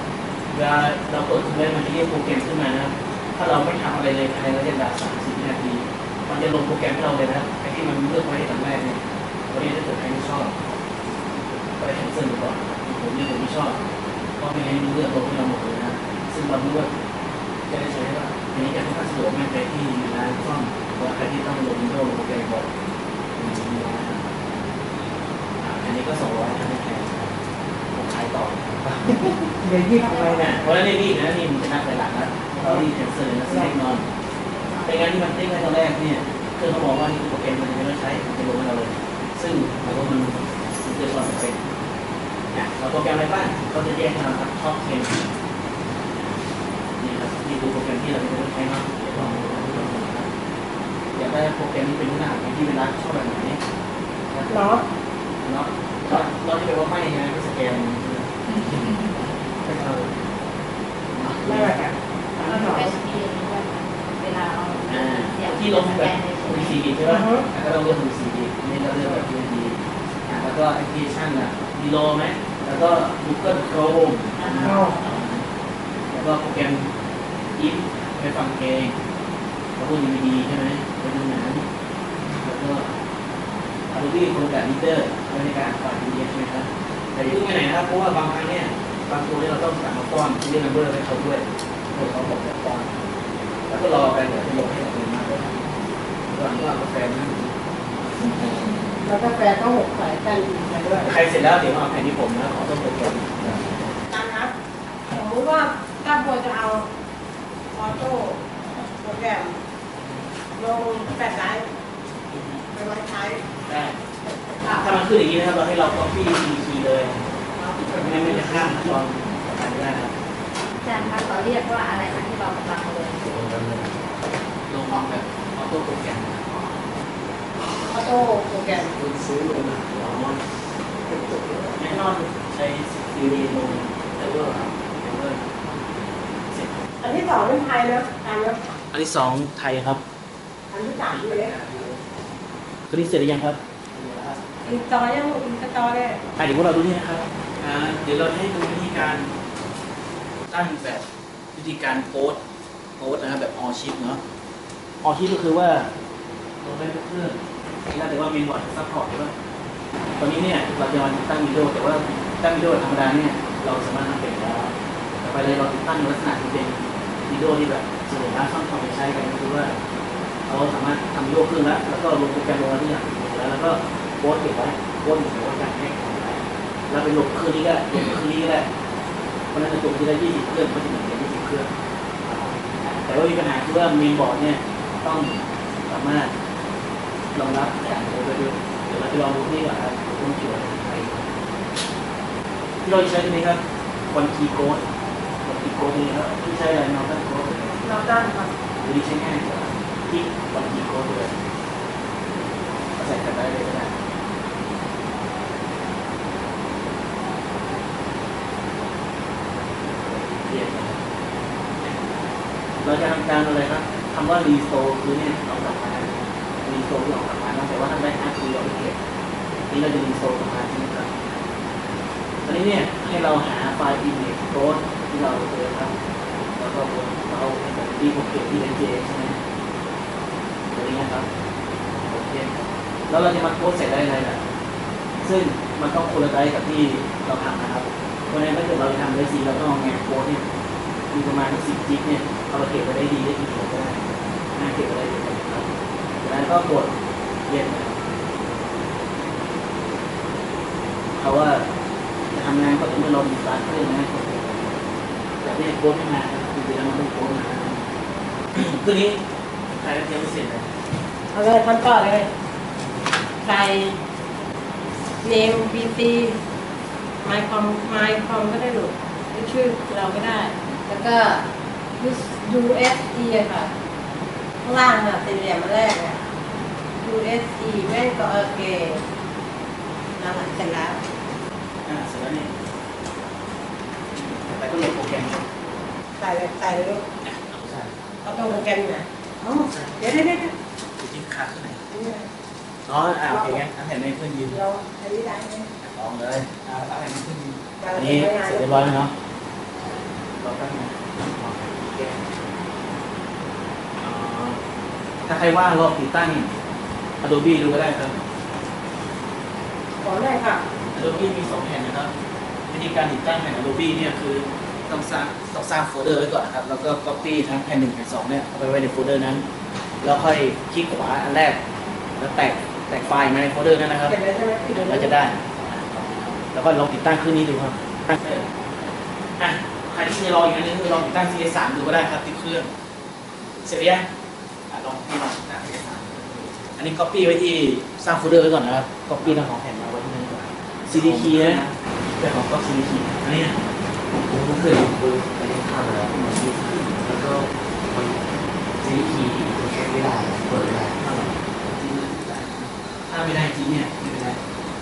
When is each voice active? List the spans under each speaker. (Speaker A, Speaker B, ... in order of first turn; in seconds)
Speaker A: 0.5-10.6, 11.8-13.8, 14.4-16.9, 17.7-22.6, 23.4-24.2, 25.6-27.4, 27.9-29.3, 30.4-34.1, 34.9-41.6, 42.5-45.3, 47.0-50.3, 51.1-53.6, 54.3-54.6, 55.4-60.1, 61.1-61.8, 64.9-75.5, 76.1-76.9, 77.6-79.0, 79.8-81.7, 82.4-82.9, 83.9-92.9, 93.7-95.7, 96.3-98.9, 101.0-104.0, 112.3-112.6, 113.6-114.0, 114.7-117.2, 117.8-120.1, 124.7-126.6, 128.9-130.4, 131.7-135.5, 136.5-136.8, 138.9-140.0, 141.1-142.0, 142.9-144.6, 146.4-149.3, 150.5-152.4, 153.0-154.2, 155.0-155.9, 156.6-159.3, 160.2-169.8, 170.5-178.7, 179.5-181.7, 182.2-186.3, 187.3-191.2, 192.8-194.8, 195.4-197.6, 198.8-201.3, 202.9-203.9, 210.4-211.0, 212.8-219.0, 219.7-221.2, 222.4-225.9, 226.6-229.4, 230.7-231.3, 231.9-234.4, 235.2-240.5, 241.1-245.7, 246.2-246.9, 247.5-247.9, 251.2-251.7, 252.3-254.8, 255.4-257.8, 258.6-260.7, 281.9-282.5, 284.1-285.4, 287.2-287.9, 289.6-290.2, 291.0-291.8, 292.9-294.6, 295.8-299.1, 300.4-302.2, 304.0-304.6, 305.2-306.5, 307.2-308.2, 310.9-312.1, 312.7-319.5, 320.0-321.6, 322.2-324.2, 324.7-328.5, 329.4-332.7, 333.6-334.1, 334.7-341.7, 342.2-343.5, 351.0-354.4
Speaker B: 29.6-30.8, 33.5-33.8, 54.5-54.8, 61.4-62.9, 67.1-67.5, 74.6-75.0, 99.0-101.1, 104.1-104.5, 105.1-106.9, 107.7-109.6, 110.5-111.7, 112.7-113.5, 117.6-118.8, 127.9-128.9, 137.0-138.6, 140.7-141.6, 144.7-146.2, 197.6-198.6, 261.3-262.3, 263.4-264.0, 265.2-266.4, 267.2-271.5, 272.0-273.7, 274.6-276.2, 277.0-279.0, 280.2-281.0, 286.2-287.1, 288.2-290.5, 291.9-292.3, 293.3-293.6, 294.5-295.7, 297.8-299.0, 310.0-310.6, 324.1-325.2
Speaker C: 30.0-30.6, 34.5-35.2, 58.5-59.0, 62.4-67.0, 74.3-75.3, 120.8-123.3
Speaker D: 123.2-124.0, 128.9-130.3, 131.1-131.8, 340.9-341.8, 344.2-348.2, 348.8-351.0